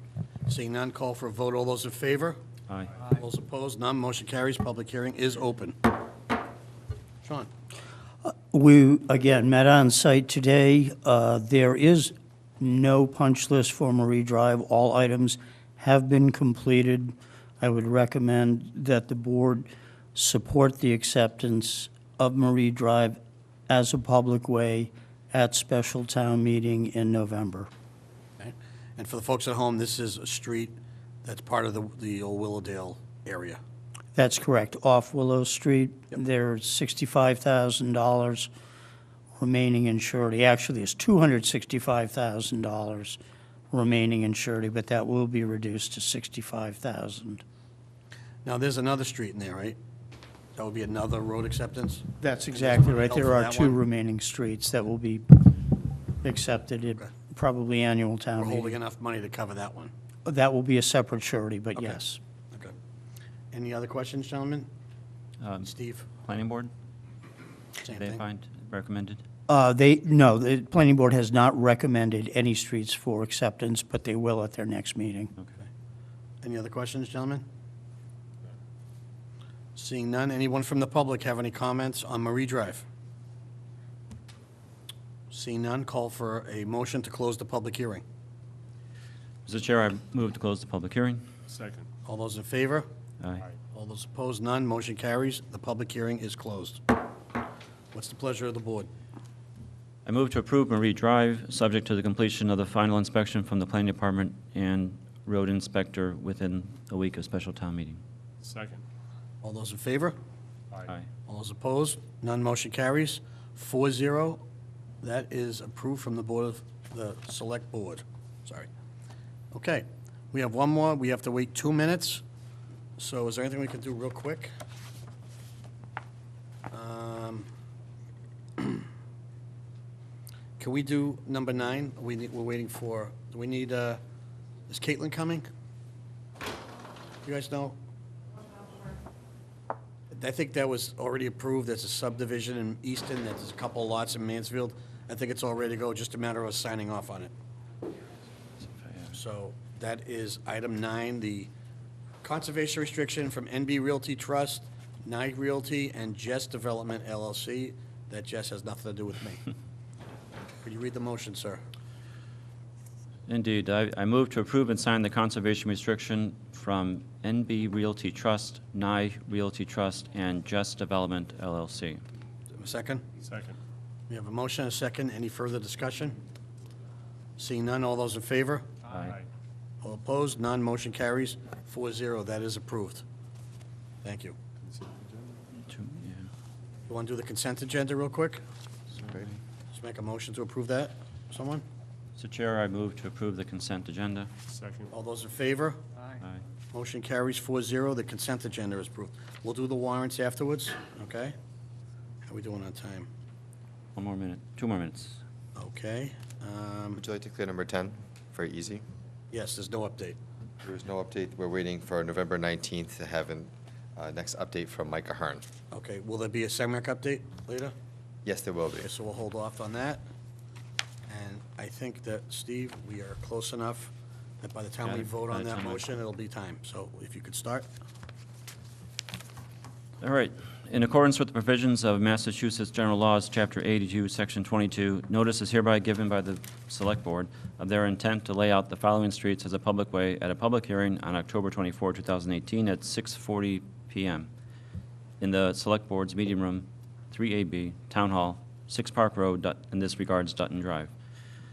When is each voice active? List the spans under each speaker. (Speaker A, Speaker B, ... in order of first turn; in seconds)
Speaker A: 0.5-2.4, 3.1-5.8, 7.2-7.5, 28.4-33.6, 48.4-49.8, 50.6-53.8, 58.4-59.9, 63.5-64.7, 65.6-66.1, 67.8-68.2, 76.4-77.4, 79.8-82.8, 85.3-88.0, 92.0-92.9, 93.7-96.8, 97.9-98.9, 109.4-110.2, 111.3-114.4, 115.0-118.7, 119.5-122.2, 123.0-124.5, 126.7-127.5, 128.6-128.8, 130.6-134.0, 134.7-135.4, 137.2-137.8, 140.1-147.3, 149.1-151.5, 152.2-159.4, 160.6-161.6, 172.6-173.0, 174.1-176.2, 177.4-178.7, 179.8-183.0, 184.0-184.4, 186.9-188.4, 189.7-191.6, 194.9-195.8, 196.7-201.3, 202.2-203.1, 205.6-207.0, 209.3-210.2, 215.7-217.7, 218.8-220.0, 221.1-227.7
Speaker B: 8.2-23.2, 23.7-27.7, 34.1-38.5, 39.4-43.2, 43.7-47.4, 52.2-55.6, 56.2-58.8, 60.2-62.2, 69.5-75.3
Speaker C: 65.4-65.7, 66.2-66.7, 67.9-69.2, 89.5-91.2, 100.0-108.0, 148.6-149.1, 163.3-172.0, 185.6-186.3, 189.0-189.3, 192.2-194.3, 203.9-205.2, 224.8-225.9, 230.0-244.3, 245.2-250.9
Speaker D: 91.5-91.9, 108.4-108.8, 173.2-173.6, 178.9-179.2, 184.6-185.1, 194.5-194.9
Speaker E: 206.9-208.8, 210.6-215.4, 218.2-218.9